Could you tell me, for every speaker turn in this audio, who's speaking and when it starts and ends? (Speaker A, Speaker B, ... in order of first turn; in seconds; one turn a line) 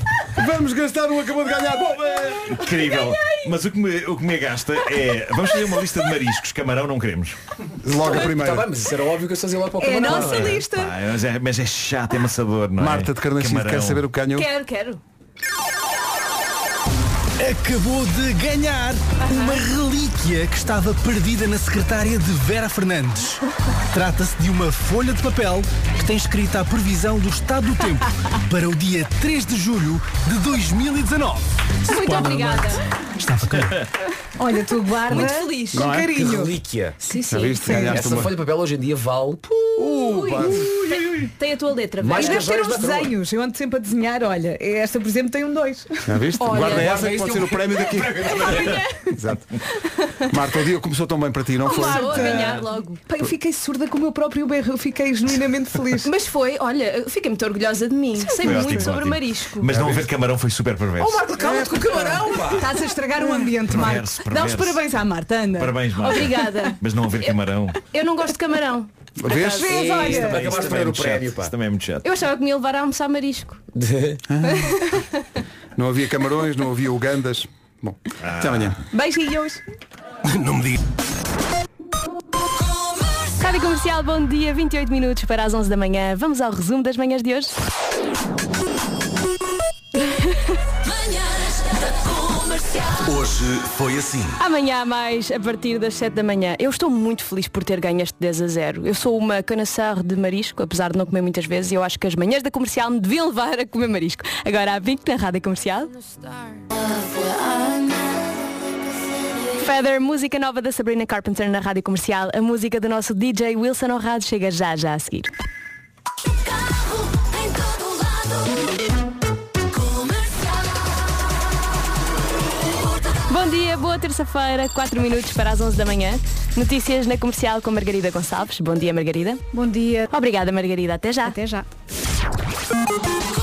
Speaker A: 0.3-2.6
Speaker B: 2.4-7.4
Speaker C: 2.8-3.5
Speaker A: 7.8-8.7
Speaker D: 7.9-10.6
Speaker E: 9.8-10.9
Speaker A: 10.1-10.4
Speaker B: 10.6-14.1
Speaker A: 12.8-14.5
Speaker C: 14.3-15.0
Speaker F: 17.4-33.8
Speaker C: 19.3-19.6
Speaker C: 31.9-32.8
Speaker E: 34.4-36.5
Speaker C: 35.1-35.8
Speaker A: 35.7-36.1
Speaker D: 36.1-37.0
Speaker C: 37.0-37.7
Speaker A: 37.3-38.3
Speaker E: 37.5-38.1
Speaker D: 37.7-41.0
Speaker A: 39.8-40.7
Speaker E: 40.1-40.6
Speaker C: 41.4-42.9
Speaker D: 42.0-43.1
Speaker E: 42.1-46.1
Speaker A: 46.1-48.5
Speaker C: 46.5-46.8
Speaker D: 46.5-48.5
Speaker C: 48.5-49.1
Speaker A: 49.1-49.5
Speaker A: 50.3-52.5
Speaker C: 51.6-53.0
Speaker E: 51.8-52.5
Speaker D: 52.1-52.7
Speaker E: 53.1-56.1
Speaker C: 56.0-59.7
Speaker E: 58.2-59.0
Speaker B: 58.4-61.2
Speaker A: 59.8-60.1
Speaker D: 61.0-62.7
Speaker A: 61.4-62.4
Speaker E: 61.6-66.7
Speaker C: 63.2-63.5
Speaker B: 63.6-64.8
Speaker B: 65.5-67.8
Speaker C: 66.0-66.7
Speaker C: 67.9-69.8
Speaker A: 69.2-69.7
Speaker E: 69.3-70.5
Speaker D: 69.7-71.5
Speaker B: 70.0-72.0
Speaker C: 72.0-73.6
Speaker D: 73.8-74.2
Speaker A: 74.3-74.8
Speaker A: 75.8-78.8
Speaker B: 78.2-78.8
Speaker E: 78.9-79.6
Speaker F: 80.3-80.8
Speaker C: 83.4-87.5
Speaker C: 94.4-105.9
Speaker C: 109.6-115.3
Speaker C: 123.3-129.4
Speaker E: 129.6-130.1
Speaker C: 130.1-131.4